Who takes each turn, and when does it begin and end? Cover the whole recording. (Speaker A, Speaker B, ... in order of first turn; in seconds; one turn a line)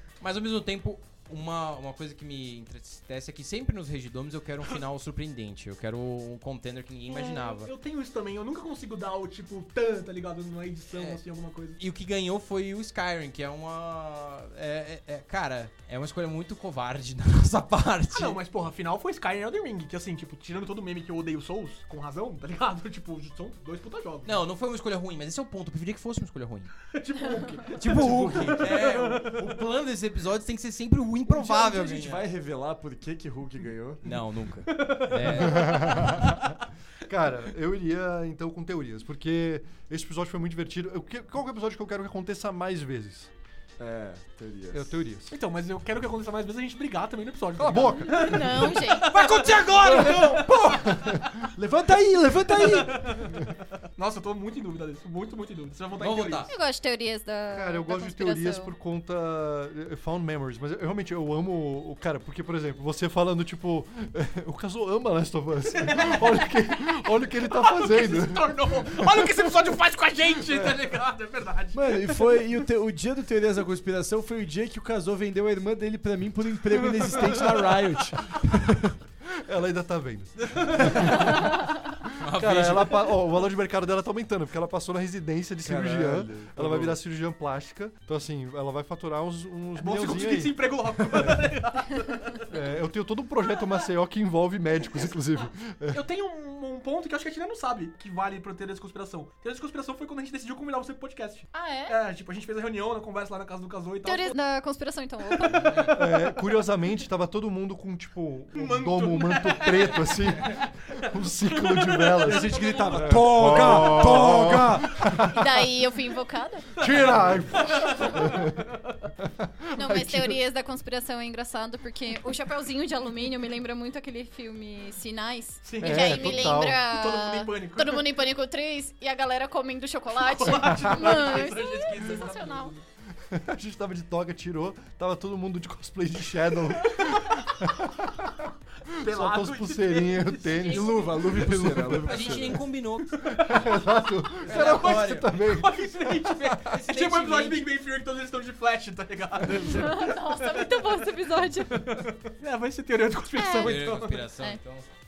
Speaker A: 0.2-7.7
Speaker B: 7.1-11.8
Speaker A: 10.9-11.2
Speaker A: 11.8-18.4
Speaker B: 18.1-24.4
Speaker A: 24.2-26.9
Speaker B: 26.9-29.5
Speaker A: 27.8-32.2
Speaker C: 27.9-28.7
Speaker C: 31.2-34.1
Speaker A: 34.0-36.2
Speaker B: 34.7-36.3
Speaker D: 35.5-36.4
Speaker D: 37.1-43.3
Speaker C: 43.8-45.0
Speaker D: 44.7-45.3
Speaker B: 45.3-51.3
Speaker D: 47.6-48.8
Speaker E: 48.1-49.2
Speaker A: 49.0-50.6
Speaker C: 49.7-53.2
Speaker B: 52.5-53.4
Speaker B: 54.0-56.5
Speaker A: 56.0-56.5
Speaker E: 56.5-58.7
Speaker D: 57.5-69.1
Speaker B: 65.7-66.8
Speaker B: 67.5-72.4
Speaker C: 71.7-78.9
Speaker D: 79.4-81.7
Speaker B: 80.5-81.2
Speaker A: 82.2-83.2
Speaker D: 82.3-91.5
Speaker C: 85.6-87.0
Speaker B: 89.8-92.5
Speaker D: 92.5-96.0
Speaker B: 95.9-104.4
Speaker E: 101.5-102.0
Speaker E: 104.0-106.1
Speaker B: 105.5-105.9
Speaker D: 105.9-115.6
Speaker B: 108.5-114.1
Speaker C: 112.2-115.2
Speaker E: 115.3-116.8
Speaker D: 116.8-118.5
Speaker B: 116.8-119.1
Speaker D: 119.5-120.4
Speaker E: 119.7-132.7
Speaker B: 125.6-128.1
Speaker D: 125.8-126.8
Speaker B: 130.1-132.8
Speaker D: 133.3-138.5
Speaker B: 136.9-137.3
Speaker B: 139.0-141.1
Speaker D: 139.0-142.3
Speaker C: 140.6-142.6
Speaker A: 142.0-143.2
Speaker B: 143.0-143.9
Speaker D: 143.3-146.7
Speaker B: 144.4-151.1
Speaker A: 144.4-145.3
Speaker A: 146.7-147.6
Speaker E: 149.7-152.1
Speaker B: 151.7-154.2
Speaker E: 153.3-153.8
Speaker A: 153.6-154.8